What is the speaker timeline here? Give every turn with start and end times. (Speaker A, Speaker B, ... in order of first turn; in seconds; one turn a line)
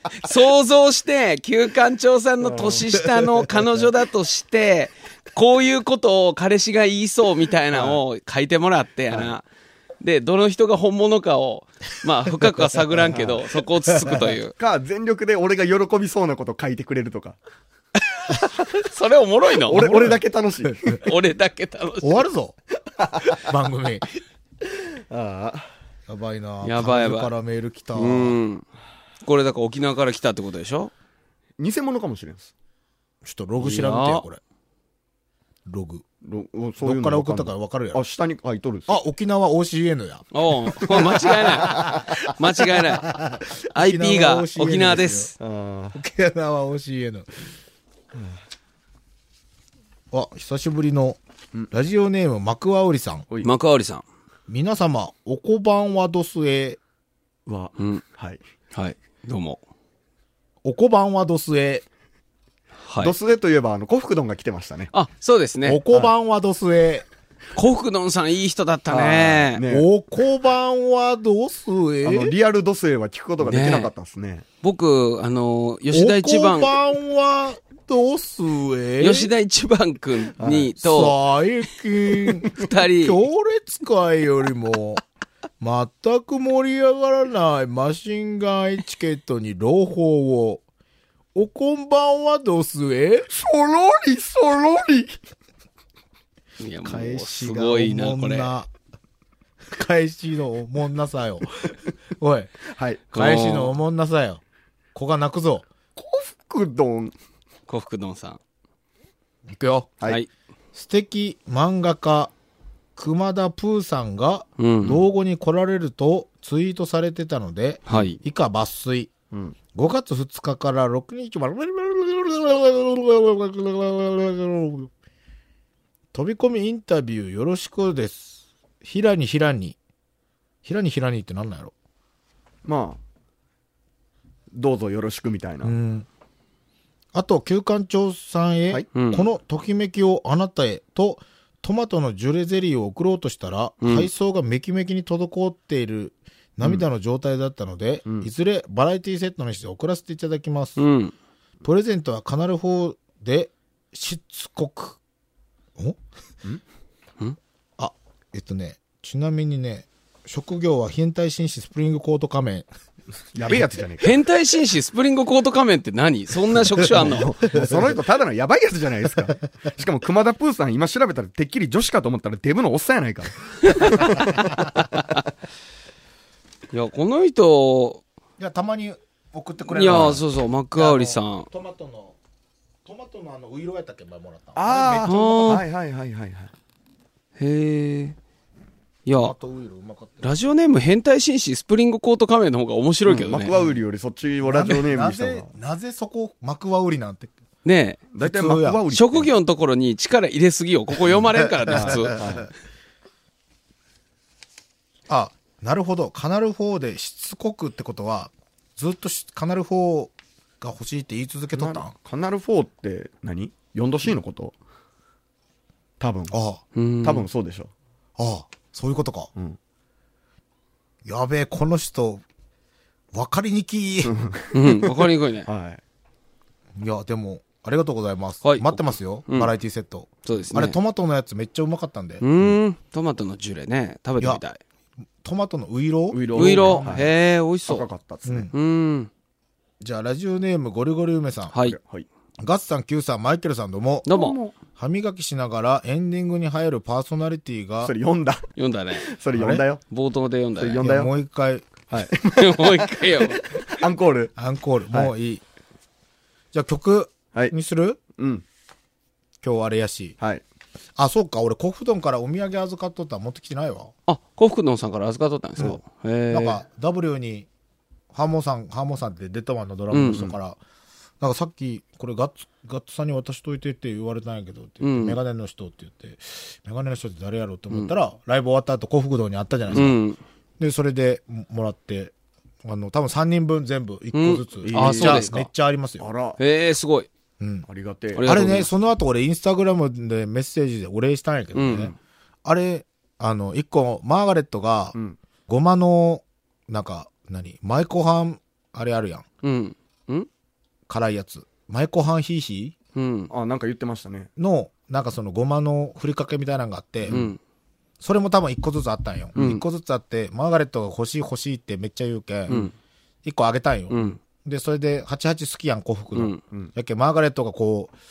Speaker A: 0.1-9.4
Speaker B: 2.4-2.9
Speaker B: 7.7-8.0
Speaker A: 10.0-14.5
Speaker B: 13.1-13.4
Speaker C: 14.0-14.2
Speaker B: 14.6-17.4
Speaker A: 18.8-19.9
Speaker B: 19.7-21.0
Speaker C: 19.7-20.7
Speaker A: 20.9-22.2
Speaker C: 22.0-22.6
Speaker B: 23.0-23.5
Speaker C: 23.3-24.1
Speaker B: 24.7-25.7
Speaker C: 26.1-28.4
Speaker A: 26.6-27.3
Speaker A: 27.9-28.6
Speaker A: 29.2-30.9
Speaker B: 31.6-32.5
Speaker C: 33.2-34.4
Speaker A: 33.6-34.2
Speaker C: 35.6-36.0
Speaker B: 36.2-38.9
Speaker C: 36.8-38.0
Speaker C: 38.9-40.3
Speaker A: 40.3-43.1
Speaker B: 40.9-42.3
Speaker C: 41.6-45.3
Speaker A: 43.7-45.3
Speaker B: 45.4-46.0
Speaker C: 45.9-47.5
Speaker C: 50.1-51.2
Speaker C: 51.7-53.2
Speaker A: 53.4-54.0
Speaker C: 54.5-56.8
Speaker B: 57.5-58.4
Speaker A: 58.7-59.6
Speaker C: 60.6-61.8
Speaker A: 62.9-63.1
Speaker B: 63.0-64.9
Speaker A: 64.9-65.8
Speaker C: 65.7-67.0
Speaker A: 67.5-69.6
Speaker B: 68.9-69.9
Speaker C: 69.7-72.3
Speaker B: 72.0-74.4
Speaker A: 73.4-73.9
Speaker A: 74.6-76.7
Speaker C: 75.9-79.3
Speaker A: 79.0-81.2
Speaker B: 80.4-80.7
Speaker C: 80.8-85.0
Speaker A: 82.5-83.2
Speaker C: 85.6-90.6
Speaker C: 91.3-93.3
Speaker B: 93.3-95.2
Speaker A: 96.6-98.5
Speaker C: 96.8-98.7
Speaker C: 99.7-102.5
Speaker B: 102.7-103.0
Speaker A: 103.1-103.7
Speaker C: 103.1-104.4
Speaker C: 104.9-105.7
Speaker B: 106.0-107.1
Speaker A: 107.7-108.4
Speaker C: 109.5-110.0
Speaker C: 110.7-112.3
Speaker C: 113.0-119.1
Speaker A: 114.6-115.0
Speaker A: 117.9-118.2
Speaker B: 117.9-118.1
Speaker C: 119.7-124.9
Speaker C: 126.1-129.8
Speaker C: 130.6-131.7
Speaker B: 132.6-133.0
Speaker B: 134.5-135.7
Speaker C: 135.6-136.1
Speaker C: 137.1-150.8
Speaker A: 138.9-139.2
Speaker A: 143.8-144.1
Speaker A: 150.8-151.1
Speaker C: 151.6-155.0
Speaker C: 157.8-162.7
Speaker B: 163.3-164.1
Speaker A: 164.0-167.3
Speaker B: 166.9-174.4
Speaker A: 173.6-175.2
Speaker A: 176.7-178.0
Speaker C: 178.4-180.2
Speaker A: 179.7-181.5
Speaker C: 180.7-182.2
Speaker C: 182.8-185.6
Speaker B: 184.5-186.5
Speaker A: 185.1-185.6
Speaker A: 187.4-188.2
Speaker A: 189.1-189.3
Speaker C: 189.1-190.3
Speaker A: 190.2-193.5
Speaker B: 193.1-195.5
Speaker C: 194.4-197.3
Speaker A: 197.6-198.1
Speaker B: 198.1-199.3
Speaker C: 198.2-198.8
Speaker A: 198.9-202.2
Speaker C: 201.7-202.3
Speaker B: 201.7-202.5
Speaker C: 205.1-211.9
Speaker B: 211.5-214.5
Speaker B: 216.0-216.3
Speaker C: 216.3-216.6
Speaker A: 216.8-217.3
Speaker B: 217.0-217.7
Speaker C: 218.2-219.3
Speaker C: 221.0-222.2
Speaker C: 223.1-224.1
Speaker B: 224.0-225.8
Speaker A: 224.5-225.5
Speaker C: 226.8-232.2
Speaker A: 228.4-229.5
Speaker A: 230.2-230.8
Speaker A: 232.2-234.6
Speaker C: 235.2-237.0
Speaker B: 236.1-237.1
Speaker A: 236.3-237.8
Speaker B: 237.7-238.5
Speaker C: 238.2-238.5
Speaker A: 238.5-239.1
Speaker C: 239.8-241.5
Speaker B: 241.6-242.1
Speaker C: 242.4-244.1
Speaker A: 244.1-244.4
Speaker B: 244.1-244.5
Speaker C: 244.8-247.9
Speaker B: 247.8-248.5
Speaker A: 248.6-249.1
Speaker B: 249.0-249.8
Speaker C: 249.3-249.6
Speaker A: 249.9-250.8
Speaker B: 250.6-251.1
Speaker C: 250.8-251.7
Speaker B: 251.9-254.3
Speaker A: 252.3-253.5
Speaker C: 254.4-255.4
Speaker C: 256.5-258.0
Speaker B: 258.2-258.4
Speaker C: 259.4-260.2
Speaker C: 261.0-263.9
Speaker A: 264.1-266.6
Speaker C: 266.3-267.5
Speaker C: 268.1-270.6
Speaker A: 269.9-270.2
Speaker C: 271.2-280.0
Speaker A: 274.8-275.2
Speaker A: 279.7-280.2
Speaker C: 280.6-282.1
Speaker C: 282.6-286.1
Speaker A: 284.1-285.5
Speaker B: 284.6-285.3
Speaker B: 286.0-286.4
Speaker A: 286.4-287.1
Speaker C: 287.4-287.6
Speaker B: 287.6-288.3
Speaker A: 288.1-288.7
Speaker C: 288.2-291.9
Speaker A: 291.5-291.9
Speaker C: 292.4-294.9
Speaker C: 295.5-299.2
Speaker A: 299.4-300.3
Speaker C: 300.9-302.7
Speaker A: 302.9-303.3
Speaker B: 303.3-304.3
Speaker C: 304.4-307.2
Speaker B: 307.1-307.3
Speaker A: 307.1-307.4
Speaker C: 308.0-312.6
Speaker A: 309.4-309.6
Speaker C: 313.2-317.9
Speaker A: 313.9-314.2
Speaker A: 316.1-316.4